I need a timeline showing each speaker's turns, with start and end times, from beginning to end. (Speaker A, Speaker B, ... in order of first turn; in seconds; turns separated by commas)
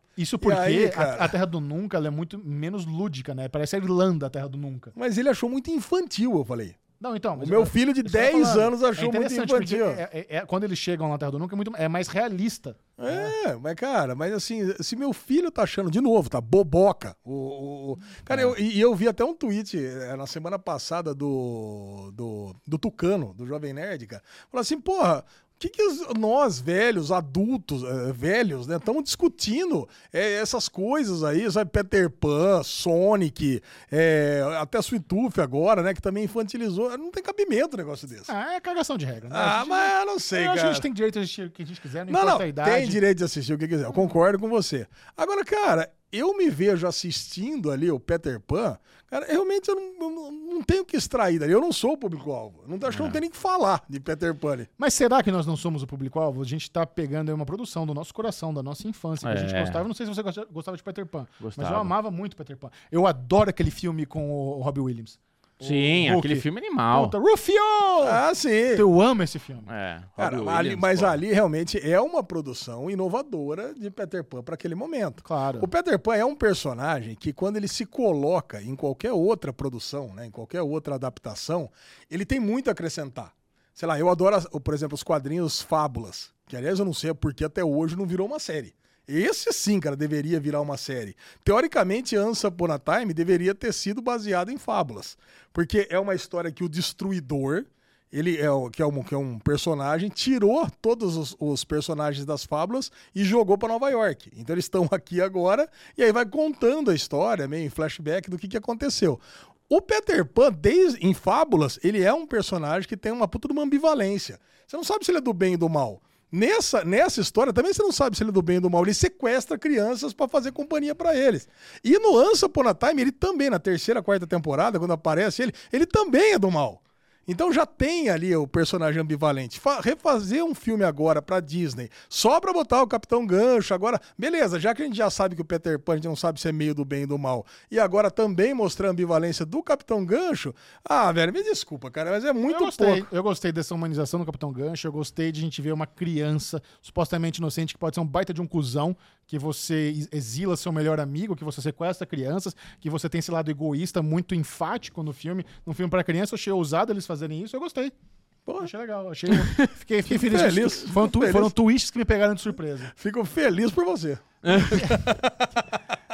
Speaker A: 0.2-4.9, Speaker B: 0.4-1.3, Speaker B: 5.0-6.8, Speaker A: 7.0-13.3, Speaker B: 7.4-10.0, Speaker B: 13.0-38.3, Speaker A: 38.3-43.0, Speaker B: 39.3-40.9, Speaker B: 42.1-54.7, Speaker C: 52.9-53.2, Speaker A: 54.8-69.7, Speaker C: 59.2-59.8, Speaker C: 61.4-61.9, Speaker C: 65.6-67.1, Speaker B: 68.0-68.8, Speaker C: 69.7-71.2, Speaker B: 70.2-143.1, Speaker A: 75.2-75.7, Speaker A: 142.5-157.9, Speaker B: 158.5-158.7, Speaker A: 158.6-162.9, Speaker C: 159.4-159.7, Speaker B: 160.1-161.6, Speaker B: 162.9-165.5, Speaker C: 164.4-165.0